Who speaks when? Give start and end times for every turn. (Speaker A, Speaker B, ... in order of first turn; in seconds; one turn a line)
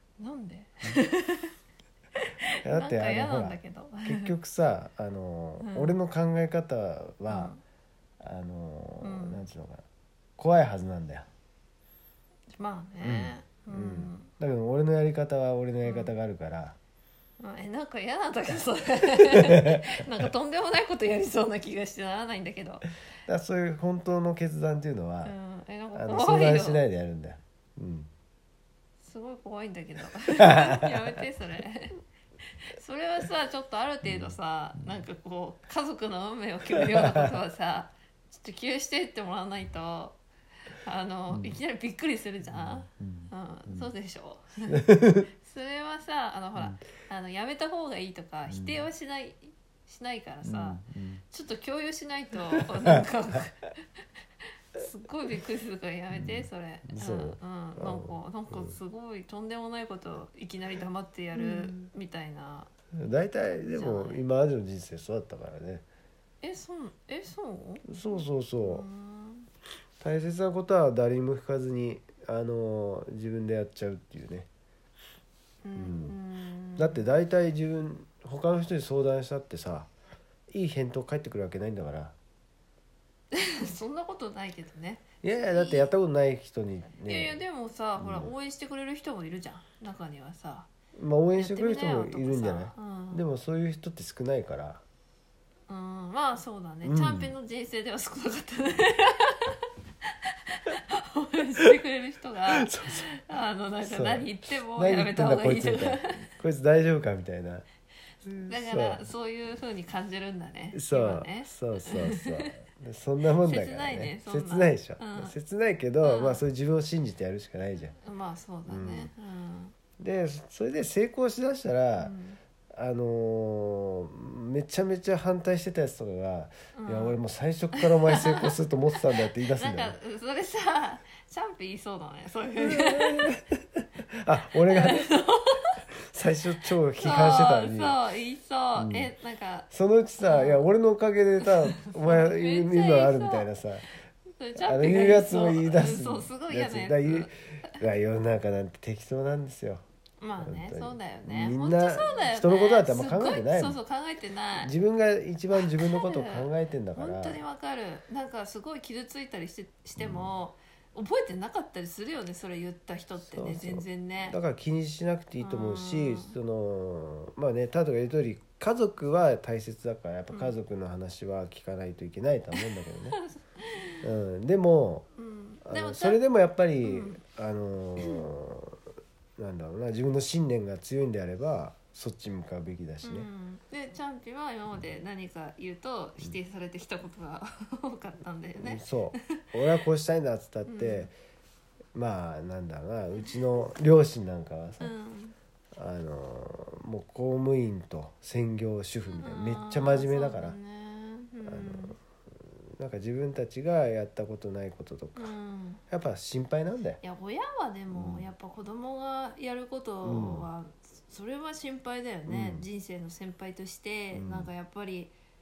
Speaker A: 0.2-1.5
Speaker A: 2.1-4.3
Speaker B: 2.6-7.5
Speaker A: 5.6-6.0
Speaker A: 7.3-7.6
Speaker B: 8.2-9.8
Speaker A: 9.0-9.4
Speaker B: 10.4-11.3
Speaker A: 12.6-14.3
Speaker B: 13.0-16.8
Speaker A: 15.8-16.1
Speaker A: 17.4-22.9
Speaker B: 19.3-19.8
Speaker B: 23.3-25.3
Speaker A: 25.2-26.8
Speaker B: 25.9-28.1
Speaker A: 29.0-32.0
Speaker B: 30.4-31.0
Speaker A: 32.7-40.2
Speaker B: 34.0-34.4
Speaker B: 36.8-37.0
Speaker A: 40.8-44.8
Speaker B: 41.3-41.6
Speaker B: 42.5-43.9
Speaker B: 44.7-45.3
Speaker A: 45.3-53.7
Speaker B: 48.5-48.9
Speaker B: 50.4-51.2
Speaker B: 52.5-53.0
Speaker A: 54.7-62.7
Speaker B: 56.1-58.7
Speaker B: 61.3-61.8
Speaker B: 62.9-65.8
Speaker A: 63.4-64.2
Speaker A: 66.4-67.9
Speaker B: 67.8-68.8
Speaker A: 68.6-69.5
Speaker B: 70.0-74.5
Speaker A: 75.6-77.0
Speaker B: 75.8-76.2
Speaker B: 76.8-79.9
Speaker B: 80.5-82.1
Speaker A: 83.3-85.9
Speaker B: 85.2-87.4
Speaker A: 87.0-90.7
Speaker B: 88.0-88.3
Speaker B: 91.0-94.8
Speaker A: 91.3-93.2
Speaker A: 95.7-106.3
Speaker B: 96.8-97.3
Speaker B: 102.5-103.0
Speaker B: 103.8-107.6
Speaker B: 108.2-109.0
Speaker A: 108.5-112.5
Speaker B: 110.7-117.9
Speaker A: 113.4-115.3
Speaker A: 116.0-116.5
Speaker A: 117.9-119.7
Speaker B: 118.7-119.1
Speaker B: 120.0-122.1
Speaker A: 122.0-122.4
Speaker B: 122.7-129.9
Speaker A: 126.7-127.2
Speaker A: 127.7-128.5
Speaker A: 129.2-133.3
Speaker B: 132.6-135.1
Speaker A: 134.7-135.8
Speaker B: 136.1-138.0
Speaker A: 137.0-139.7
Speaker B: 138.8-139.1
Speaker B: 139.7-143.9
Speaker A: 140.2-140.6
Speaker A: 141.8-143.5
Speaker A: 144.4-147.8
Speaker B: 144.6-149.8
Speaker A: 150.2-154.7
Speaker B: 150.4-153.8
Speaker B: 154.6-157.4
Speaker A: 155.5-164.4
Speaker B: 160.0-160.3
Speaker B: 163.2-173.2
Speaker A: 165.4-166.3
Speaker A: 170.3-170.6
Speaker A: 172.5-174.0
Speaker B: 174.0-175.1
Speaker A: 175.1-176.2
Speaker B: 175.6-178.8
Speaker A: 176.8-177.2
Speaker A: 178.0-178.2
Speaker B: 179.4-183.3
Speaker A: 183.0-189.4
Speaker B: 188.6-191.1
Speaker A: 190.7-191.1
Speaker B: 191.9-194.9
Speaker A: 194.8-195.3
Speaker B: 195.7-200.6
Speaker A: 199.1-202.0
Speaker B: 201.4-205.3
Speaker A: 205.2-205.8
Speaker B: 205.9-207.0
Speaker A: 207.0-215.1
Speaker B: 207.9-208.3
Speaker B: 210.0-210.5
Speaker B: 212.3-212.7
Speaker B: 214.1-214.5